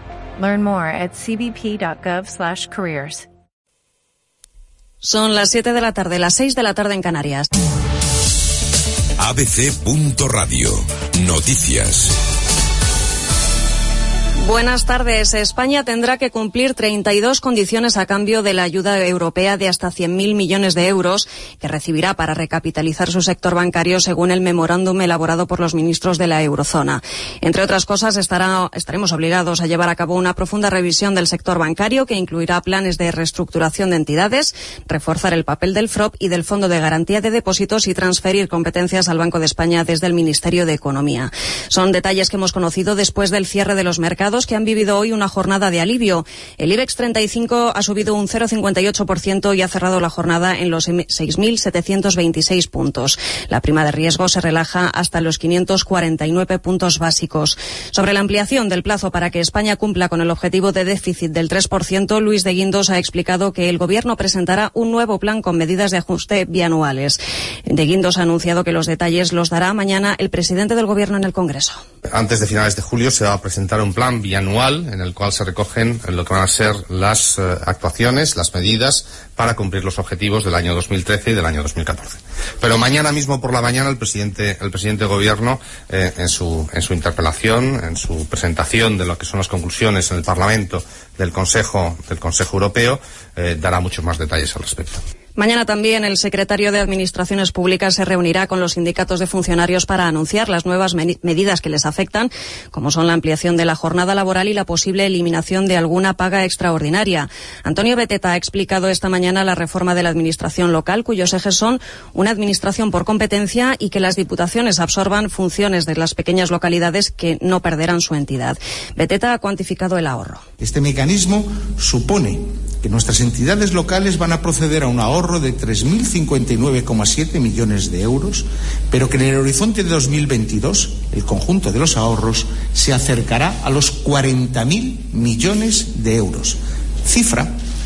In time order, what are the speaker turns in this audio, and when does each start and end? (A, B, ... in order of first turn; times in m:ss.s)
0:00.4-0:03.3 A
0:05.0-0:07.5 B
0:09.2-0:12.2 C
0:14.4-1:07.2 B
1:07.7-1:11.8 B
1:12.1-1:35.0 D
1:35.4-2:00.4 B
2:00.6-2:17.6 E